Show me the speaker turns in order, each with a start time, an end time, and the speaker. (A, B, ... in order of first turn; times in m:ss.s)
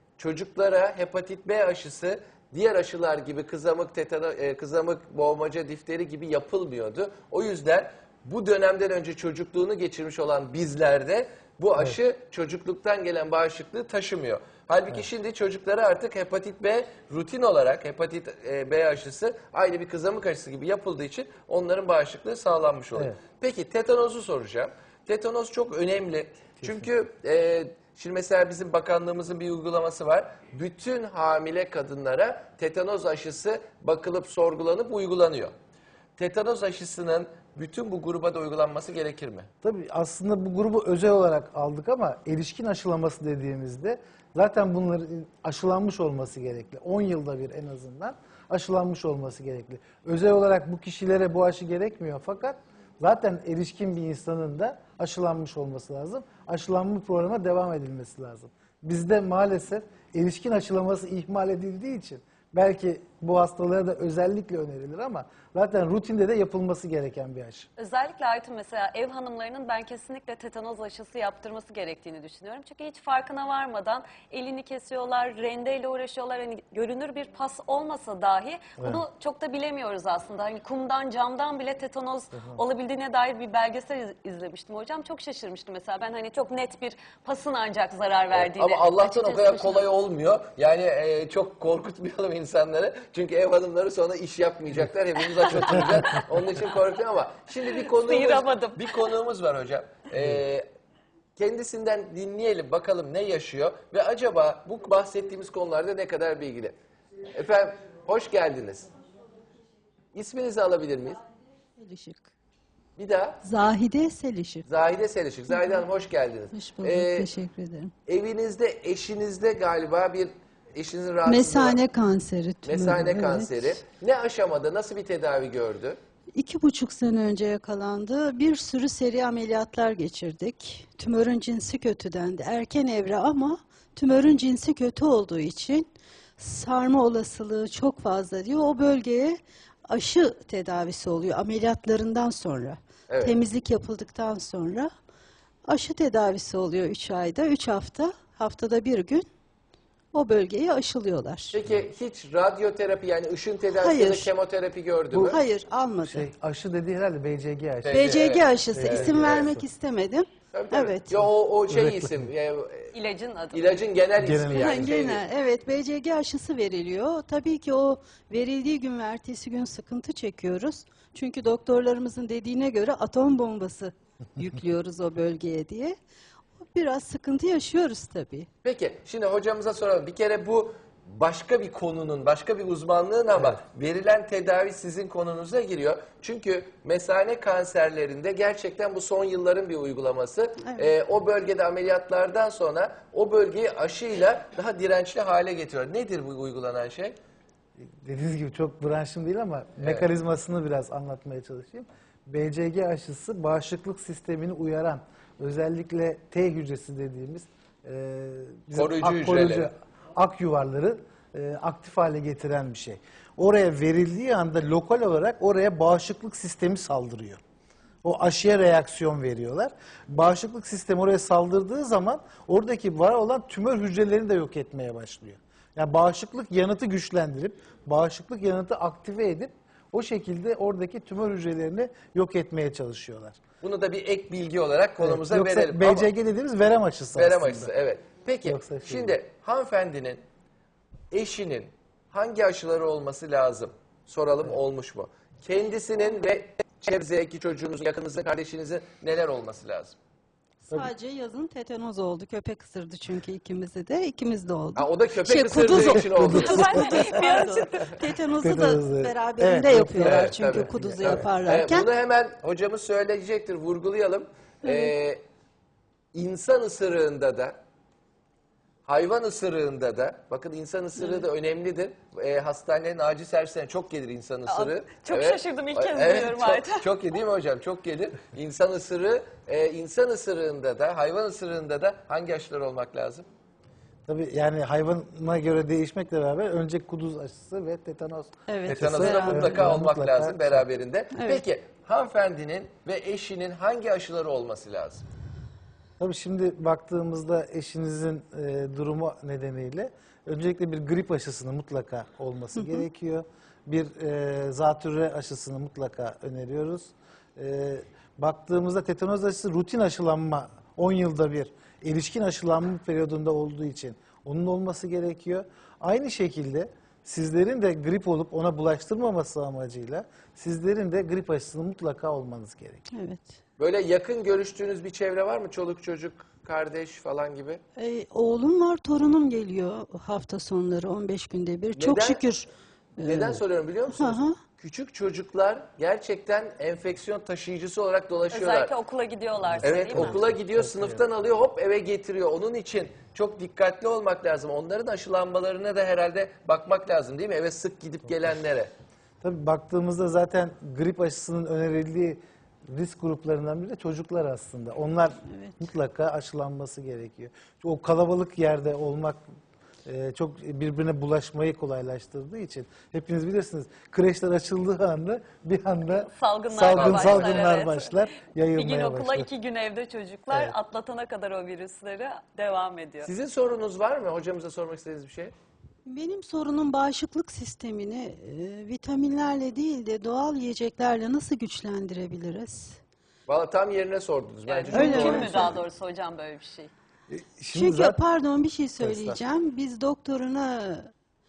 0:00.2-0:35.5 A
0:26.6-0:26.9 B
0:36.2-0:39.5 A
0:39.6-1:07.7 B
1:07.8-1:29.9 C
1:22.3-1:22.6 B
1:28.3-1:40.6 A
1:37.7-1:39.0 C
1:41.4-1:46.7 A
1:47.3-1:48.9 A
1:50.1-1:51.2 A
1:51.8-1:52.3 D
1:53.0-1:53.4 A
1:53.4-1:54.6 D
1:54.6-1:57.3 A
1:55.5-1:55.8 D
1:56.5-1:57.9 D
1:58.0-2:01.8 A
2:01.2-2:03.6 D
2:02.6-2:06.0 A
2:06.3-2:15.9 D
2:16.4-2:24.9 D
2:23.1-2:23.4 A
2:25.6-2:29.2 D
2:30.1-2:31.6 D
2:31.5-2:35.4 A
2:33.8-2:34.3 D
2:35.1-2:35.4 B
2:35.2-2:36.3 D
2:36.0-2:39.6 B
2:37.8-2:39.6 A
2:37.9-2:41.2 D
2:40.5-2:42.9 A
2:41.7-2:42.3 B
2:42.9-2:43.8 C
2:43.5-2:45.2 A
2:44.2-2:44.9 B
2:44.5-2:56.0 D
2:56.6-2:58.5 D
2:58.6-3:17.2 A
3:17.8-3:37.4 B
3:19.8-3:20.1 A
3:28.7-3:29.7 A
3:38.0-3:53.4 B
3:53.6-3:56.1 A
3:55.0-3:57.7 B
3:57.1-4:00.2 A
3:58.4-3:59.2 B
4:01.1-4:10.0 A
4:10.6-4:21.9 D
4:14.8-4:17.0 A
4:15.7-4:17.0 B
4:16.3-4:18.0 C
4:18.4-4:21.2 B
4:20.0-4:25.2 A
4:26.1-4:27.6 A
4:28.8-4:43.3 A
4:34.4-4:36.9 C
4:44.1-4:50.6 B
4:48.5-4:49.6 D
4:48.6-4:55.0 A
4:51.1-4:51.4 D
4:56.0-5:22.8 B
5:02.6-5:02.8 D
5:22.9-5:23.4 D
5:23.6-5:27.6 A
5:27.8-5:32.5 D
5:31.7-5:32.2 A
5:33.0-5:34.4 D
5:33.0-5:38.7 A
5:38.3-5:40.2 C
5:39.5-5:41.0 B
5:39.6-5:48.7 A
5:49.2-5:59.2 B
5:55.3-5:55.6 D
5:59.8-6:09.3 B
6:05.9-6:08.0 C
6:06.7-6:07.4 A
6:08.5-6:13.1 C
6:10.3-6:10.5 B
6:13.0-6:15.3 A
6:15.8-6:22.8 D
6:23.3-6:25.5 A
6:24.4-6:26.7 C
6:24.7-6:25.6 D
6:27.1-6:28.0 B
6:27.5-6:30.9 D
6:28.8-6:29.2 B